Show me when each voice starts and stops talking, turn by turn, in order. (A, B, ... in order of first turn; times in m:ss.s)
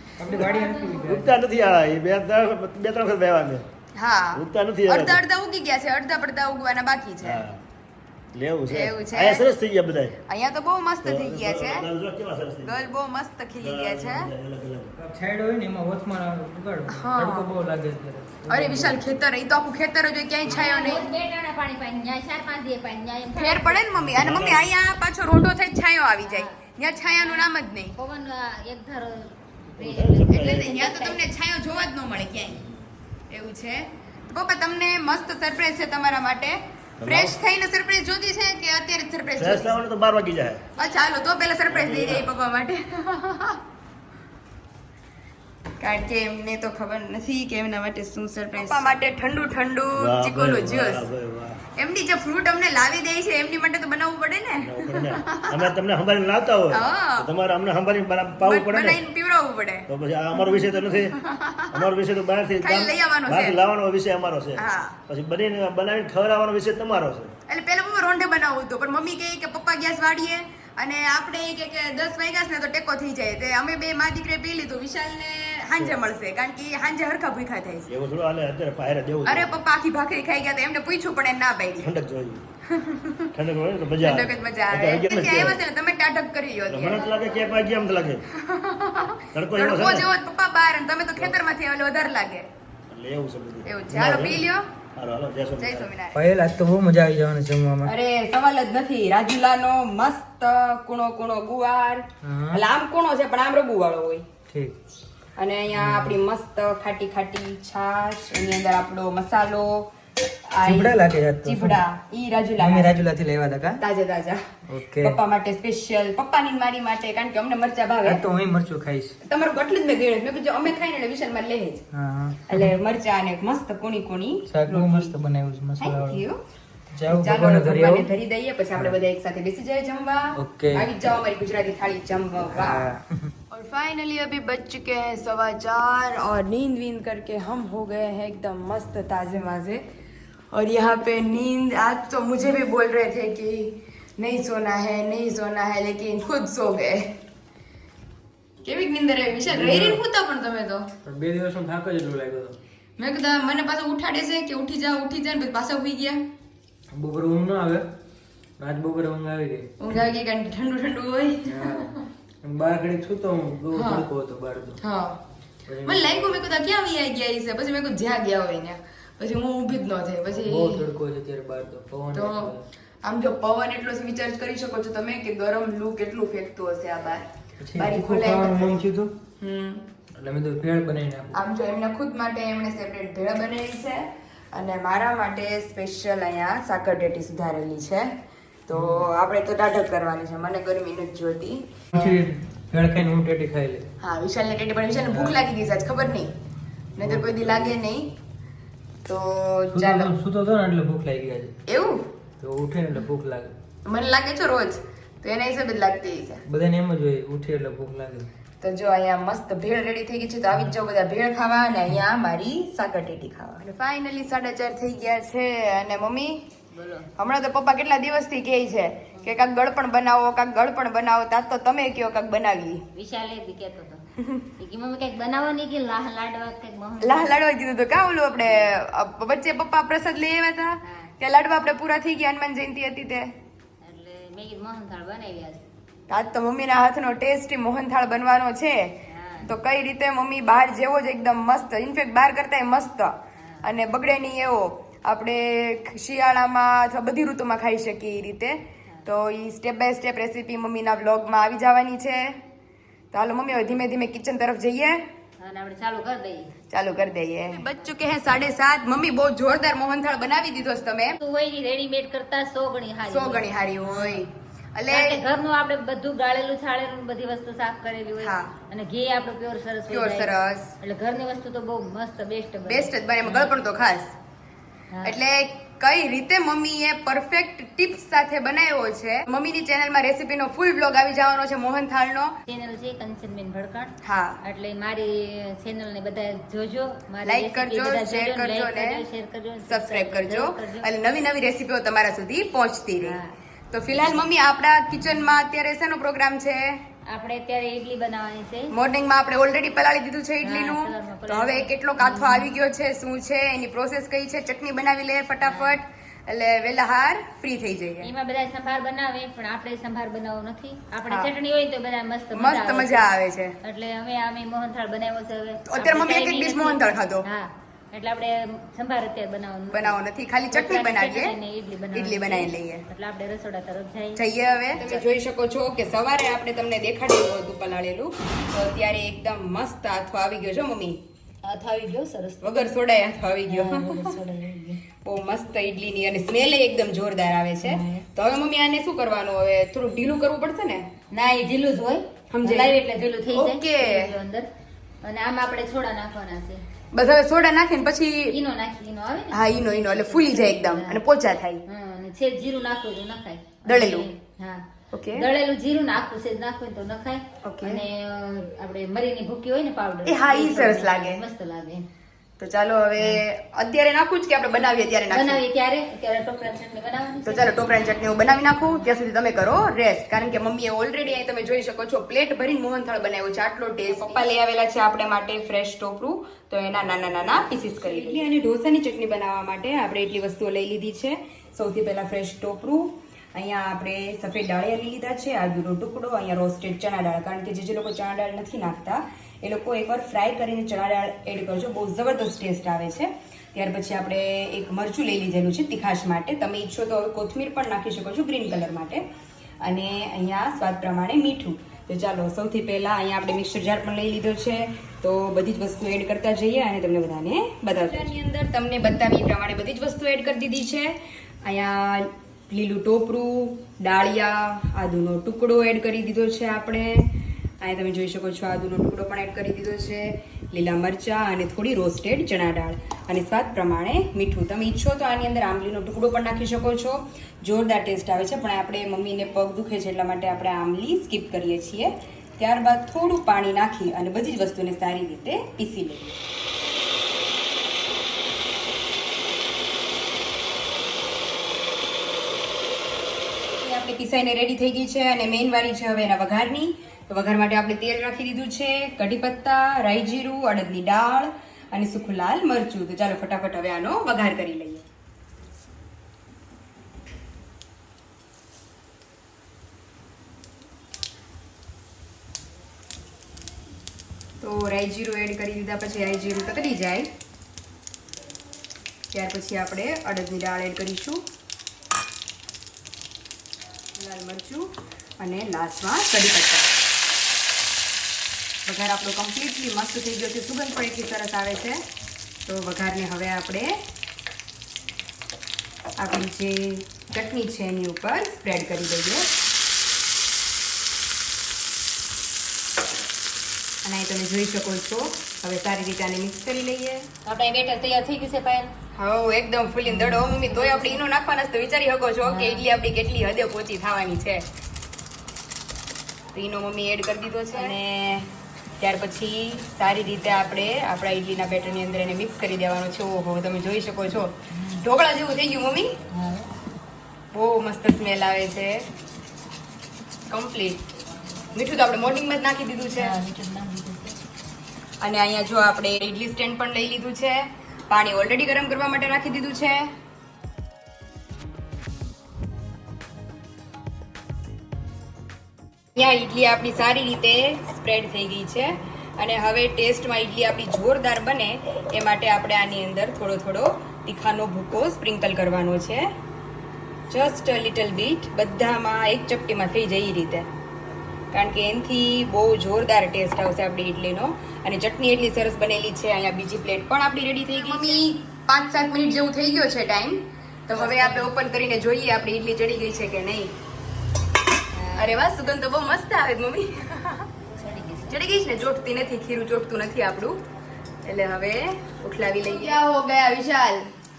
0:00.2-0:01.4 A
0:00.4-0:03.7 B
0:04.0-0:07.4 C
0:04.3-0:05.2 B
0:07.2-0:07.6 B
0:08.3-0:10.2 B
0:08.7-0:09.5 C
0:10.3-0:11.9 C
0:11.0-0:12.9 B
0:12.6-0:14.3 C
0:13.6-0:14.9 B
0:15.0-0:19.0 A
0:16.9-0:17.5 C
0:18.5-0:21.1 C
0:20.5-0:23.8 D
0:23.4-0:28.0 C
0:24.1-0:24.7 B
0:26.2-0:31.3 D
0:29.8-0:30.9 B
0:30.3-0:32.6 C
0:33.3-0:39.8 C
0:37.0-0:37.4 B
0:39.4-0:40.6 B
0:40.8-0:43.6 C
0:41.7-0:42.3 B
0:45.8-0:51.1 C
0:50.0-0:51.6 B
0:51.8-0:55.6 C
0:54.6-0:59.0 B
0:56.7-0:57.3 C
0:58.4-0:59.9 C
0:59.9-1:01.2 B
1:00.6-1:01.8 C
1:01.7-1:07.3 B
1:02.6-1:03.6 C
1:04.6-1:05.0 C
1:07.5-1:17.9 C
1:17.9-1:19.5 B
1:19.2-1:21.9 C
1:21.8-1:22.4 B
1:22.7-1:23.3 C
1:23.3-1:25.6 B
1:24.0-1:27.4 C
1:26.7-1:28.2 B
1:28.4-1:32.5 C
1:29.3-1:30.1 B
1:32.9-1:34.4 B
1:33.6-1:34.7 C
1:35.0-1:35.9 B
1:35.6-1:36.2 C
1:36.1-1:37.9 A
1:37.8-1:44.3 C
1:42.2-1:42.6 A
1:44.5-1:44.8 A
1:45.4-1:49.9 C
1:45.7-1:46.2 A
1:50.5-1:53.1 C
1:50.6-1:51.8 A
1:52.6-1:53.8 A
1:53.8-1:54.4 C
1:54.7-1:55.2 A
1:55.0-1:58.2 C
1:58.0-1:59.2 A
1:59.2-2:01.8 C
2:01.9-2:02.7 A
2:02.5-2:05.1 C
2:04.5-2:06.2 A
2:05.8-2:06.4 C
2:06.9-2:08.1 A
2:07.1-2:12.9 C
2:10.4-2:10.9 A
2:12.5-2:13.3 A
2:13.5-2:19.8 C
2:20.5-2:27.2 C
2:28.6-2:30.9 C
2:29.5-2:30.0 A
2:31.0-2:32.6 A
2:33.0-2:36.2 C
2:36.9-2:37.9 A
2:38.6-2:39.7 A
2:39.8-2:41.9 C
2:41.4-2:44.8 A
2:43.7-2:44.1 C
2:44.8-2:45.2 C
2:45.7-2:46.5 A
2:45.9-2:50.8 C
2:50.4-2:52.6 A
2:52.1-2:58.8 C
2:57.6-2:59.2 A
2:59.4-2:59.9 C
3:00.2-3:01.4 A
3:01.3-3:08.1 C
3:08.7-3:12.0 C
3:08.7-3:09.1 A
3:11.9-3:13.9 A
3:14.0-3:16.3 C
3:15.0-3:15.4 A
3:17.0-3:17.8 A
3:17.0-3:18.1 C
3:19.0-3:20.1 C
3:19.7-3:21.5 A
3:21.7-3:22.1 C
3:22.4-3:23.5 A
3:23.8-3:26.4 C
3:26.5-3:28.3 A
3:28.6-3:36.4 C
3:36.7-3:37.1 D
3:37.2-3:42.8 C
3:39.1-3:39.5 D
3:43.0-3:44.0 D
3:44.6-3:47.4 D
3:47.0-3:53.3 C
3:48.4-3:48.8 D
3:50.8-3:51.2 D
3:53.8-3:55.6 D
3:56.1-4:12.4 C
3:59.1-3:59.5 D
4:03.4-4:03.7 D
4:13.1-4:15.0 C
4:15.4-4:16.5 D
4:16.7-4:21.2 C
4:17.5-4:18.0 D
4:21.2-4:24.3 D
4:23.1-4:25.2 C
4:24.9-4:33.6 D
4:28.2-4:28.5 C
4:29.9-4:30.6 C
4:32.7-4:34.2 C
4:34.9-4:35.2 D
4:35.0-4:42.3 C
4:42.5-4:50.9 D
4:44.0-4:44.4 C
4:47.3-4:49.0 C
4:49.7-4:53.2 C
4:53.0-4:53.3 D
4:53.7-4:56.8 C
4:53.9-4:54.3 D
4:57.1-4:58.7 D
4:58.7-5:08.1 C
5:00.4-5:02.5 D
5:05.4-5:05.8 D
5:08.0-5:25.0 D
5:12.3-5:13.6 C
5:15.7-5:17.2 C
5:19.7-5:21.4 C
5:21.9-5:22.8 C
5:24.2-5:31.0 C
5:31.4-5:32.7 D
5:32.4-5:34.0 C
5:33.5-5:34.8 D
5:35.0-5:40.9 C
5:37.6-5:38.0 D
5:41.1-5:44.5 D
5:42.3-5:42.8 C
5:43.3-5:44.1 C
5:45.0-5:46.6 D
5:46.9-5:48.4 C
5:48.3-5:51.0 D
5:49.3-5:51.6 C
5:51.7-6:01.9 D
5:53.7-5:54.1 C
5:54.9-5:55.3 C
5:57.4-5:57.8 C
6:00.1-6:01.2 C
6:02.4-6:05.4 C
6:05.1-6:07.7 D
6:07.3-6:39.0 C
6:08.6-6:08.9 D
6:13.9-6:14.2 D
6:17.6-6:18.3 D
6:39.6-7:16.2 C
7:23.6-7:34.8 C
7:44.4-7:47.1 C
7:49.1-7:51.2 C
7:54.0-7:56.7 C
7:58.7-8:01.8 C
8:02.5-8:03.8 C
8:06.0-8:09.3 C
8:13.8-8:17.1 C
8:17.2-8:18.7 D
8:19.0-8:24.5 C
8:19.9-8:21.0 D
8:22.2-8:22.6 D
8:26.3-8:28.3 C
8:28.8-8:36.0 C
8:34.5-8:34.8 D
8:36.1-8:36.5 D
8:37.3-8:38.8 C
8:40.3-8:40.8 C
8:41.6-8:43.1 C
8:43.0-8:44.2 D
8:45.0-8:49.9 C
8:56.0-9:06.1 C
9:07.1-9:10.5 C
9:11.3-9:23.5 C
9:17.5-9:18.0 D
9:20.7-9:21.3 D
9:24.7-9:25.3 D
9:25.0-9:27.3 C
9:27.5-9:28.3 D
9:28.1-9:30.4 C
9:31.0-9:33.8 C